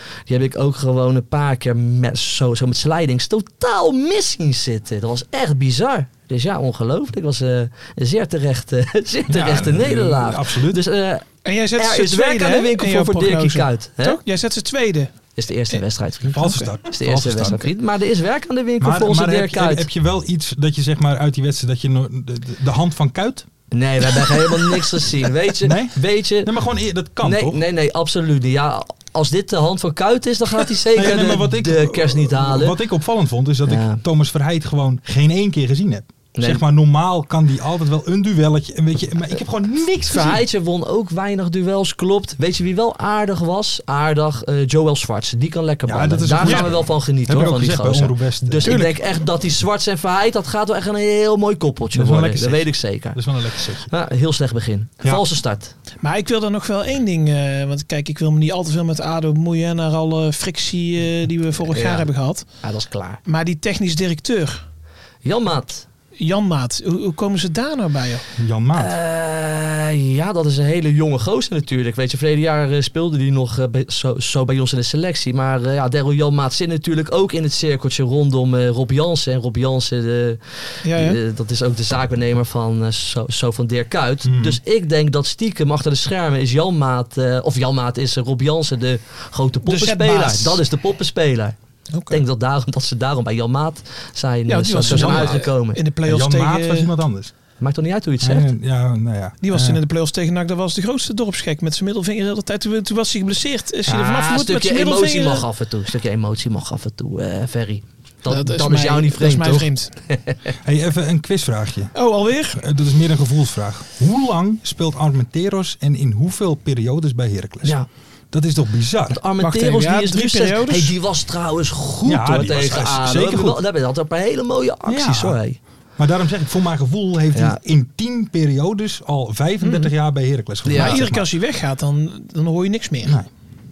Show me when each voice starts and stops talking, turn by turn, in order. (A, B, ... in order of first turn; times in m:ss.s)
0:00.3-0:14.2 A
0:09.3-0:10.8 B
0:11.4-0:15.1 C
0:15.4-0:19.9 A
0:16.3-0:17.7 B
0:16.4-0:16.7 C
0:18.8-0:23.5 B
0:23.7-0:26.5 A
0:24.1-0:24.4 B
0:25.6-0:27.6 B
0:27.2-0:32.8 A
0:30.9-0:40.4 B
0:33.7-0:34.0 A
0:36.4-0:36.6 A
0:40.1-0:53.2 A
0:45.9-0:48.8 B
0:46.4-0:46.7 C
0:48.6-0:49.0 C
0:51.9-0:53.9 B
0:53.9-0:55.7 A
0:56.0-1:02.5 C
1:01.7-1:02.1 A
1:02.6-1:03.2 A
1:03.3-1:04.6 C
1:05.2-1:05.9 A
1:06.2-1:08.3 C
1:08.4-1:09.0 B
1:08.7-1:31.6 A
1:20.8-1:21.2 C
1:24.2-1:24.6 B
1:29.7-1:30.6 C
1:31.9-1:32.2 C
1:32.1-1:35.8 A
1:34.5-1:36.9 C
1:34.8-1:35.5 B
1:36.0-1:37.3 B
1:37.6-1:38.5 A
1:38.2-1:39.8 B
1:39.4-1:45.5 C
1:43.9-1:50.4 A
1:48.3-1:49.9 C
1:50.6-1:52.0 B
1:51.9-1:52.6 C
1:52.5-1:57.8 B
1:57.6-1:57.9 A
1:58.3-1:59.2 B
1:59.1-2:05.6 A
1:59.4-2:00.9 C
2:02.0-2:03.6 B
2:04.9-2:05.4 B
2:06.0-2:11.3 B
2:07.3-2:07.6 A
2:09.6-2:09.9 C
2:10.7-2:11.0 A
2:10.7-2:13.2 C
2:13.0-2:13.3 B